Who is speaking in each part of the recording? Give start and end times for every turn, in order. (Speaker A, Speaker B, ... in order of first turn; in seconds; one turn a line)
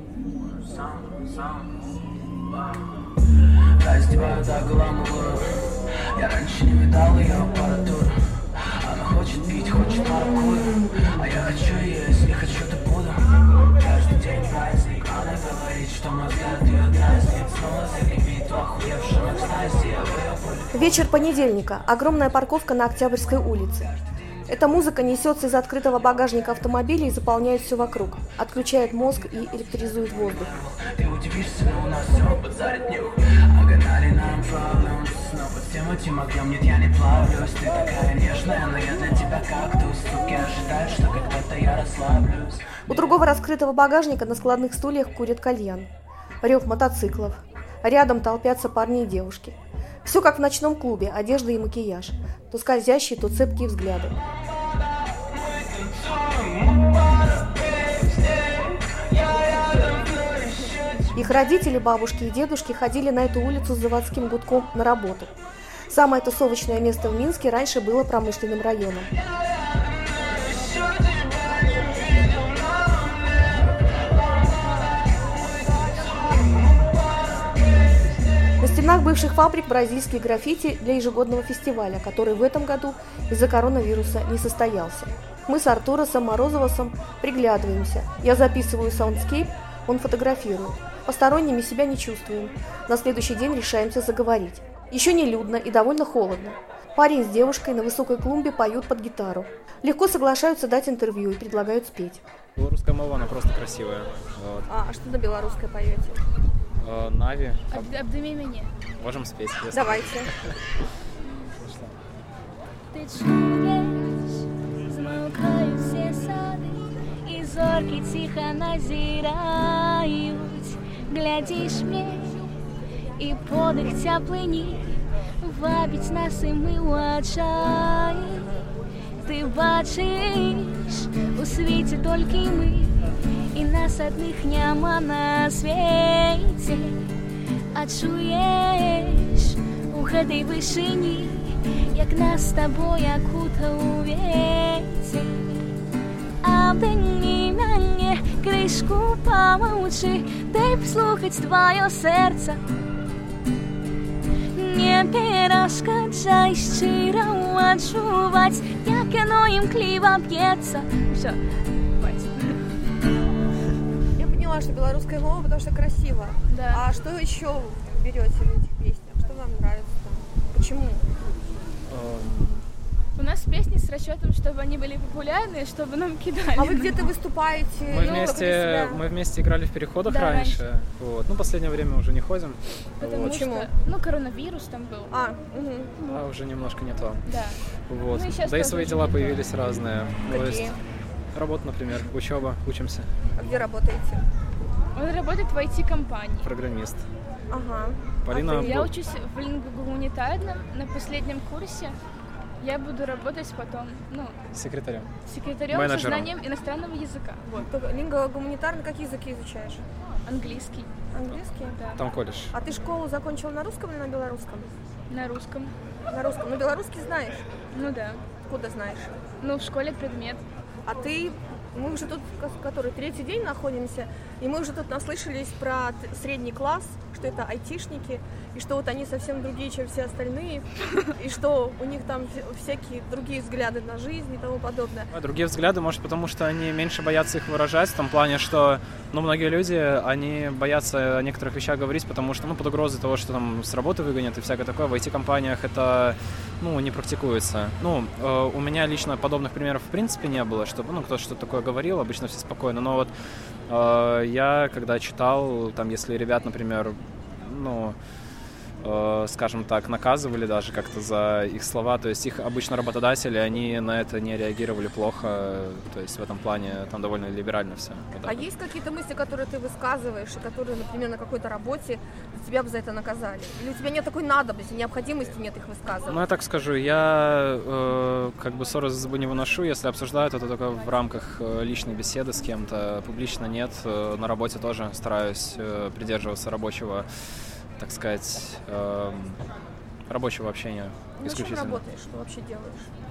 Speaker A: 0.4-1.8
Speaker A: 3.8-20.7
Speaker B: 20.7-23.9
Speaker B: 24.5-30.5
Speaker A: 30.4-42.8
Speaker B: 42.9-45.9
Speaker B: 46.4-54.1
Speaker B: 61.1-65.3
Speaker B: 65.9-69.1
Speaker B: 78.6-102.2
Speaker C: 102.6-104.7
Speaker D: 104.7-106.2
Speaker C: 106.8-107.9
Speaker E: 107.7-108.7
Speaker C: 109.0-110.5
Speaker D: 109.7-110.3
Speaker C: 111.6-111.9
Speaker F: 112.9-122.4
Speaker F: 123.2-128.5
Speaker F: 129.2-137.0
Speaker F: 137.7-145.6
Speaker F: 146.4-152.6
Speaker F: 154.6-161.1
Speaker E: 161.1-161.4
Speaker E: 162.0-162.6
Speaker D: 164.2-171.1
Speaker E: 166.5-166.8
Speaker C: 171.9-172.6
Speaker E: 173.2-177.1
Speaker D: 176.6-179.0
Speaker C: 177.9-183.3
Speaker E: 178.0-178.8
Speaker E: 180.1-180.6
Speaker E: 183.0-185.1
Speaker D: 183.2-183.7
Speaker D: 185.1-185.9
Speaker C: 186.0-187.2
Speaker E: 187.2-189.4
Speaker C: 187.9-190.8
Speaker D: 190.3-190.8
Speaker C: 191.3-193.1
Speaker D: 193.3-194.2
Speaker E: 194.9-196.5
Speaker C: 196.4-197.0
Speaker D: 197.5-198.8
Speaker C: 198.2-198.9
Speaker E: 198.5-202.0
Speaker E: 202.6-204.3
Speaker C: 204.5-205.1
Speaker E: 205.2-207.7
Speaker C: 205.7-206.3
Speaker D: 207.7-209.8
Speaker E: 210.2-210.9
Speaker D: 211.1-211.8
Speaker C: 212.0-212.5
Speaker D: 212.5-214.7
Speaker E: 215.1-215.7
Speaker D: 216.1-217.4
Speaker E: 217.7-218.2
Speaker D: 218.5-219.2
Speaker E: 219.4-220.4
Speaker D: 220.8-235.1
Speaker C: 235.1-253.1
Speaker C: 253.7-257.9
Speaker C: 258.8-268.4
Speaker D: 268.2-276.2
Speaker C: 276.1-287.1
Speaker C: 287.8-289.4
Speaker C: 290.1-291.8
Speaker D: 291.2-292.9